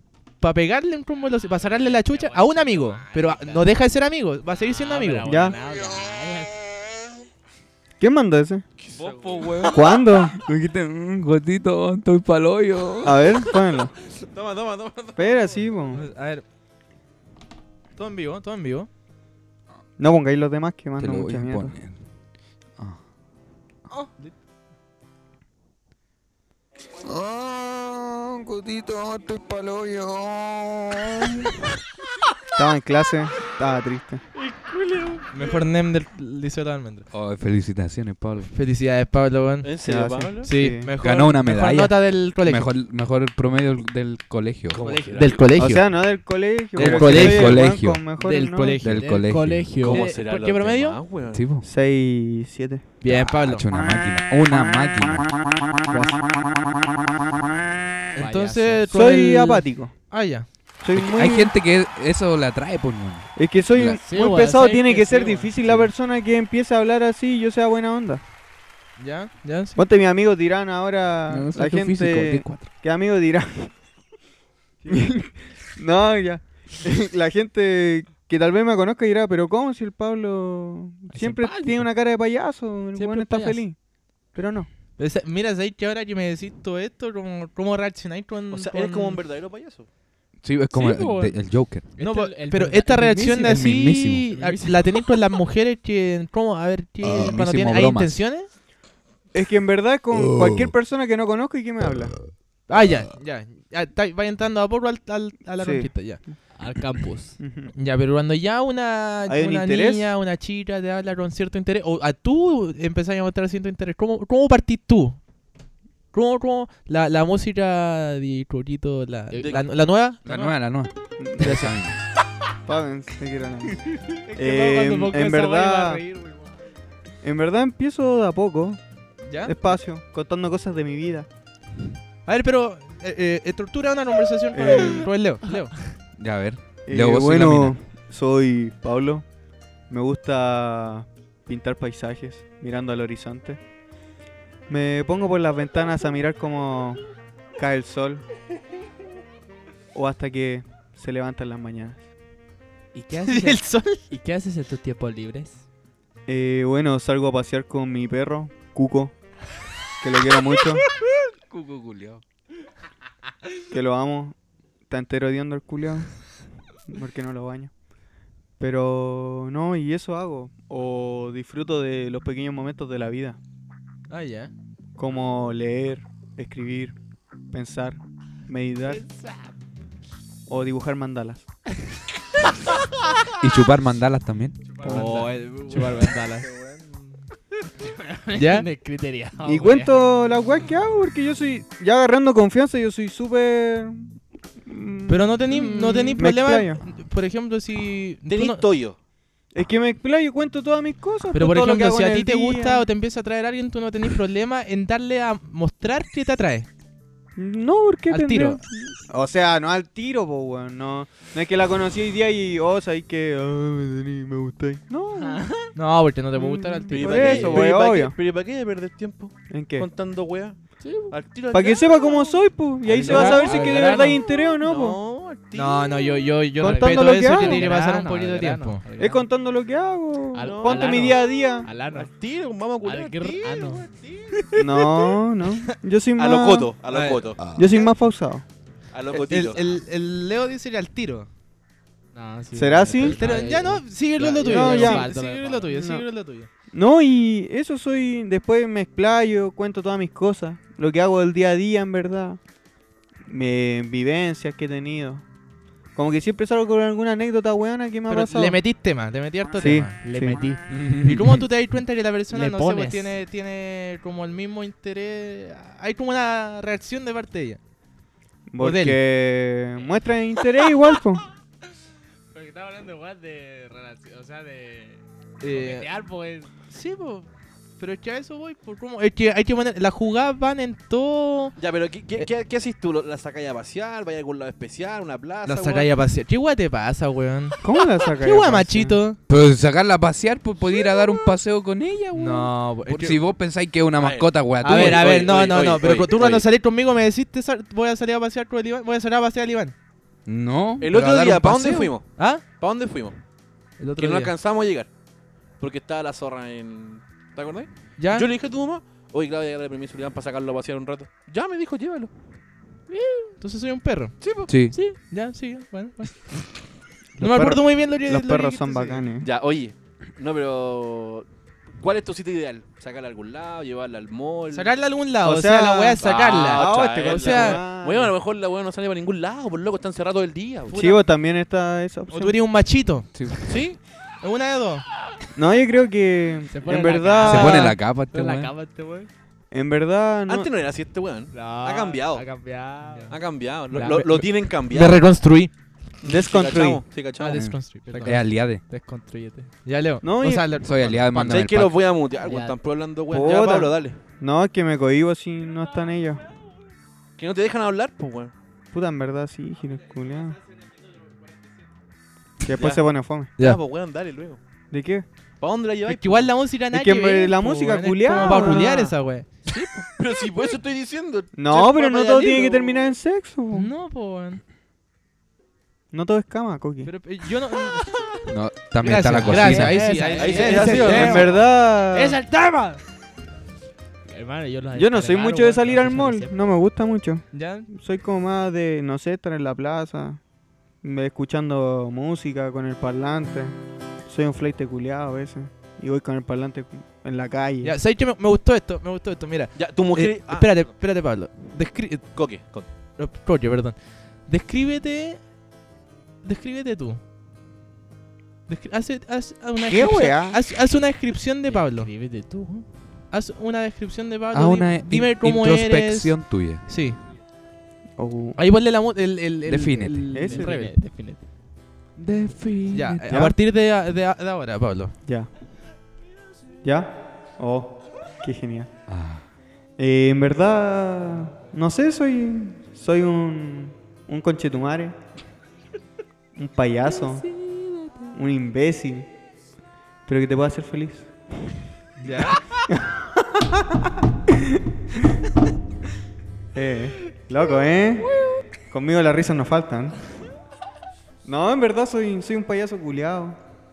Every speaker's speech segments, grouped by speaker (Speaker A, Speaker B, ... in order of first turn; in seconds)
Speaker A: 0.4-5.2, 15.9-16.4, 18.0-18.9, 35.3-37.1, 38.5-39.7, 40.4-42.7, 44.8-45.8, 46.8-48.9, 49.8-51.0, 53.0-53.6, 58.1-60.5, 69.0-69.8, 85.0-89.2, 92.0-98.5, 102.7-106.2, 107.7-115.2, 116.1-120.5, 121.4-121.7, 129.3-129.5, 132.2-135.8, 153.3-154.0, 174.1-174.5, 185.0-186.0, 188.3-188.7, 195.1-198.6, 201.3-206.7, 208.1-208.6, 215.7-217.7, 222.9-224.1, 225.5-228.8, 236.9-237.4, 239.1-241.3, 243.0-246.5, 258.1-260.0, 261.0-267.6, 268.6-269.0, 275.4-275.9, 276.7-281.6, 285.4-287.6, 288.2-289.2, 292.1-293.2, 294.6-299.7, 302.1-302.4, 303.8-304.3, 308.0-308.3, 313.4-314.2, 314.7-316.5, 317.2-319.0, 324.5-327.6, 330.7-331.0, 332.1-333.3, 334.2-334.9, 343.7-345.5, 347.2-348.2, 349.6-351.4, 365.8-369.4, 371.5-372.9, 373.5-374.4, 376.8-378.0, 378.8-382.8, 387.3-387.7, 397.6-405.2, 406.2-407.0, 408.5-411.9, 413.1-417.0, 418.4-420.7, 422.7-424.9, 442.0-442.4
Speaker B: 1.6-3.7, 4.6-6.6, 48.9-50.1, 58.1-59.1, 64.0-65.8, 81.1-81.9, 82.9-83.6, 90.7-91.4, 91.9-95.0, 106.5-107.4, 124.2-126.4, 152.9-155.6, 184.8-186.5, 187.8-189.9, 215.2-215.7, 220.8-221.2, 222.9-224.2, 226.6-229.2, 230.3-232.1, 232.8-233.9, 242.1-245.7, 260.0-260.6, 262.3-263.2, 272.3-276.5, 312.9-313.3, 336.5-339.1, 341.3-343.2, 347.9-349.5, 352.2-352.6, 379.1-381.3, 384.1-386.3, 411.4-412.7, 420.2-421.2, 437.4-438.1
Speaker C: 5.2-5.6, 8.0-8.6, 9.7-10.8, 13.0-13.9, 15.2-16.0, 20.0-21.7, 28.7-29.0, 32.5-34.2, 39.8-40.9, 45.6-48.8, 51.6-52.8, 58.9-59.9, 60.8-61.5, 63.3-68.2, 69.8-73.7, 74.8-83.8, 84.3-84.7, 99.3-102.3, 105.6-106.4, 107.4-107.7, 109.3-110.1, 121.2-121.5, 122.7-126.0, 127.2-128.8, 129.4-131.3, 134.5-135.1, 136.8-139.2, 139.9-143.6, 144.7-147.0, 147.6-148.2, 149.9-152.0, 156.3-159.1, 160.0-160.8, 163.7-164.3, 164.9-166.1, 166.9-167.7, 168.6-173.4, 175.0-176.9, 177.5-179.0, 180.5-181.4, 184.8-185.3, 189.4-196.8, 199.5-202.8, 207.3-215.5, 216.3-218.2, 219.5-219.9, 221.5-225.0, 226.6-227.7, 229.0-231.7, 234.6-236.7, 237.5-238.4, 242.5-243.2, 244.4-245.1, 245.7-246.0, 246.7-252.4, 253.3-255.2, 255.9-258.6, 259.5-260.4, 268.5-271.2, 287.6-289.0, 317.2-319.3, 325.2-328.2, 330.7-332.3, 335.3-337.7, 339.5-340.5, 346.0-346.8, 350.0-350.5, 353.1-356.2, 358.7-360.4, 362.4-363.3, 364.7-365.1, 366.7-368.9, 371.3-373.7, 375.9-376.9, 380.8-382.2, 384.7-390.2, 390.8-393.6, 394.1-397.7, 409.6-410.4, 418.0-418.4, 420.1-420.5, 423.1-423.3, 425.0-425.3, 426.6-428.7, 429.8-434.9, 436.4-437.3, 438.1-439.1, 440.1-441.1, 442.7-444.6, 446.5-448.1, 448.7-450.0, 451.2-453.4
Speaker D: 8.8-9.9, 14.2-15.6, 34.5-35.4, 39.6-40.5, 44.7-45.5, 49.8-51.5, 88.5-89.9, 119.4-119.7, 198.3-199.0, 216.9-220.6, 221.1-222.2, 223.1-223.4, 224.6-226.3, 230.4-231.2, 231.9-234.3, 236.2-237.6, 238.9-239.7, 281.6-285.9, 293.9-296.5, 300.8-303.2, 304.0-304.9, 305.6-312.1, 314.2-314.5, 319.2-321.3, 321.8-324.7, 326.0-330.8, 333.4-333.8, 340.3-342.3, 343.1-345.1, 346.0-347.5, 351.2-354.0, 357.2-358.3, 362.5-362.8, 363.4-364.4, 365.4-366.3, 369.5-371.6, 380.1-381.3, 399.6-400.7, 402.1-402.7
Speaker E: 10.6-13.4, 21.0-22.0, 27.2-27.9, 28.4-31.4, 37.1-38.5, 41.0-45.0, 46.8-48.0, 48.8-49.8, 51.3-51.6, 53.0-55.9, 60.9-64.0, 71.3-72.7, 90.4-91.8, 93.4-94.3, 97.0-98.2, 100.4-100.7, 120.2-122.0, 136.2-137.8, 161.5-162.2, 183.4-184.6, 260.7-261.4, 289.3-295.1, 300.2-301.9, 314.5-314.7, 333.1-333.4, 337.2-338.5, 347.4-348.6, 350.6-351.8, 378.3-379.8, 414.3-416.6, 419.5-420.1, 422.0-423.1, 428.9-429.3